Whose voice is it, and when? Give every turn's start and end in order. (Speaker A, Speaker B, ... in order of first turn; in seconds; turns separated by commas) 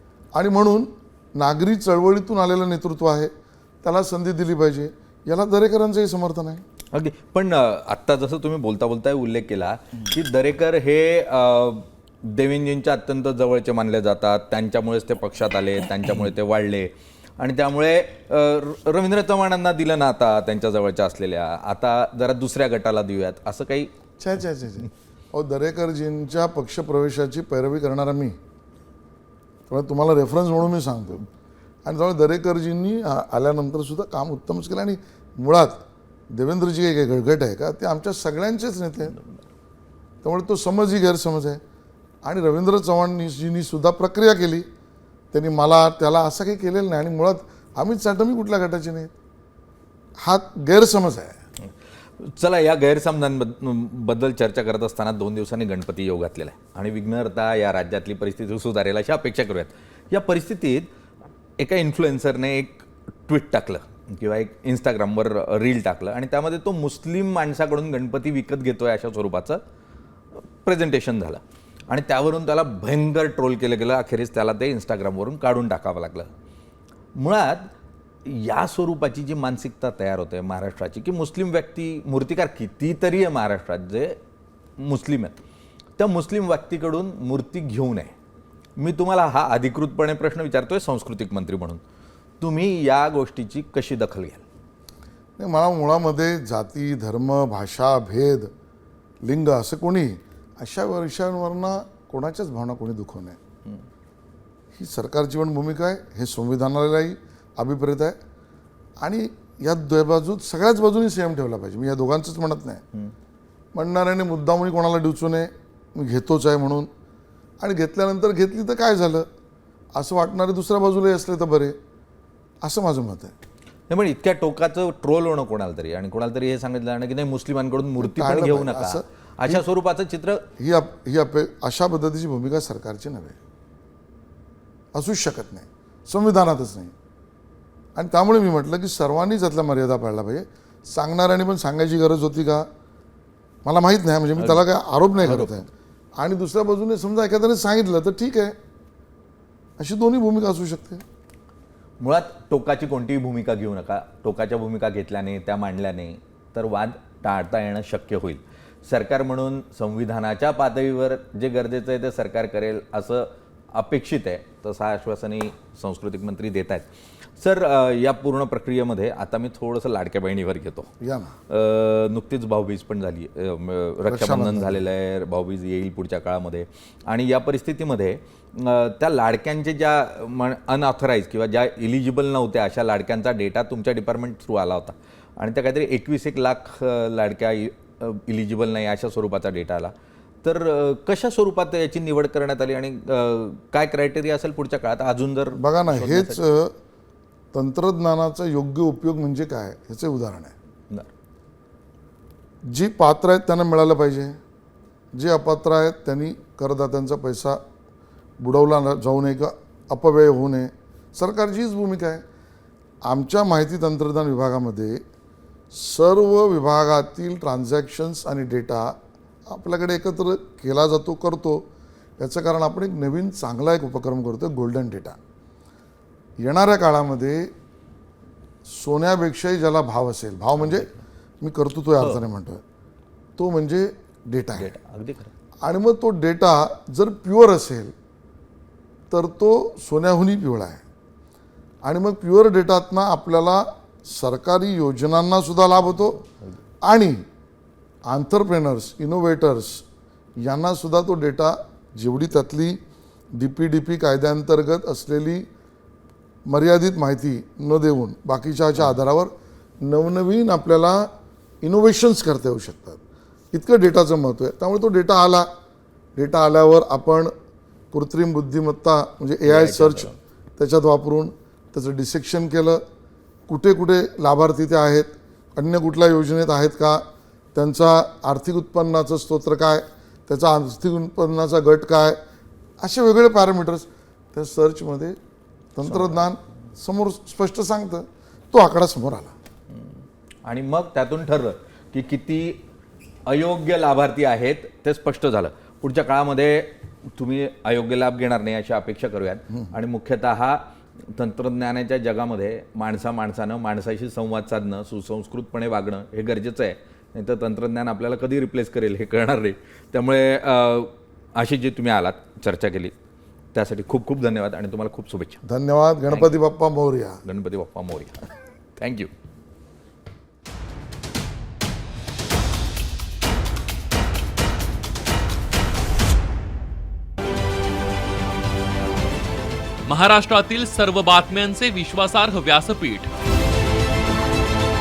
Speaker A: 0.3-6.6, Speaker B: 6.9-23.9, Speaker A: 24.2-28.4, Speaker A: 29.7-31.2, Speaker A: 31.8-39.2, Speaker A: 40.2-41.6, Speaker A: 42.2-44.7, Speaker A: 45.3-49.1, Speaker A: 50.2-51.4, Speaker B: 51.6-60.9, Speaker B: 61.6-69.6, Speaker B: 70.6-76.3, Speaker B: 77.2-77.7, Speaker B: 78.2-84.2, Speaker B: 84.8-85.4, Speaker B: 86.0-88.1, Speaker B: 88.8-91.8, Speaker B: 92.4-94.4, Speaker A: 95.4-98.5, Speaker A: 99.2-103.4, Speaker A: 104.8-108.2, Speaker A: 109.0-112.8, Speaker A: 113.7-116.9, Speaker A: 117.6-119.3, Speaker A: 119.9-121.8, Speaker A: 122.6-123.3, Speaker B: 123.9-130.5, Speaker A: 128.0-129.6, Speaker A: 130.6-133.4, Speaker A: 134.9-136.9, Speaker A: 137.9-142.7, Speaker A: 143.6-148.6, Speaker B: 144.4-144.7, Speaker B: 145.2-145.7, Speaker A: 149.8-151.0, Speaker B: 152.0-166.9, Speaker B: 167.4-170.9, Speaker A: 171.0-171.3, Speaker B: 171.5-196.4, Speaker A: 174.1-174.8, Speaker A: 195.6-196.7, Speaker A: 197.5-200.5, Speaker A: 202.6-204.4, Speaker A: 205.1-207.6, Speaker A: 208.4-212.2, Speaker A: 213.0-215.0, Speaker A: 215.7-221.7, Speaker A: 222.2-225.2, Speaker A: 226.4-227.5, Speaker A: 228.7-230.9, Speaker B: 230.6-230.9, Speaker A: 231.4-232.6, Speaker A: 233.4-234.8, Speaker B: 234.6-235.3, Speaker A: 235.6-237.9, Speaker A: 239.1-240.8, Speaker A: 241.8-246.2, Speaker B: 246.2-246.6, Speaker A: 246.8-247.2, Speaker A: 248.1-249.8, Speaker A: 250.4-252.8, Speaker A: 253.3-255.5, Speaker A: 256.5-261.1, Speaker A: 261.6-263.0, Speaker A: 263.5-265.5, Speaker A: 266.2-267.3, Speaker A: 267.9-272.8, Speaker B: 269.5-270.2, Speaker A: 273.5-282.2, Speaker A: 282.8-285.2, Speaker A: 285.8-289.3, Speaker B: 285.9-286.2, Speaker B: 290.4-292.6, Speaker B: 293.3-300.6, Speaker B: 301.1-312.9, Speaker B: 313.5-315.4, Speaker A: 315.4-317.2, Speaker B: 317.2-318.3, Speaker B: 318.8-319.1, Speaker C: 329.9-333.1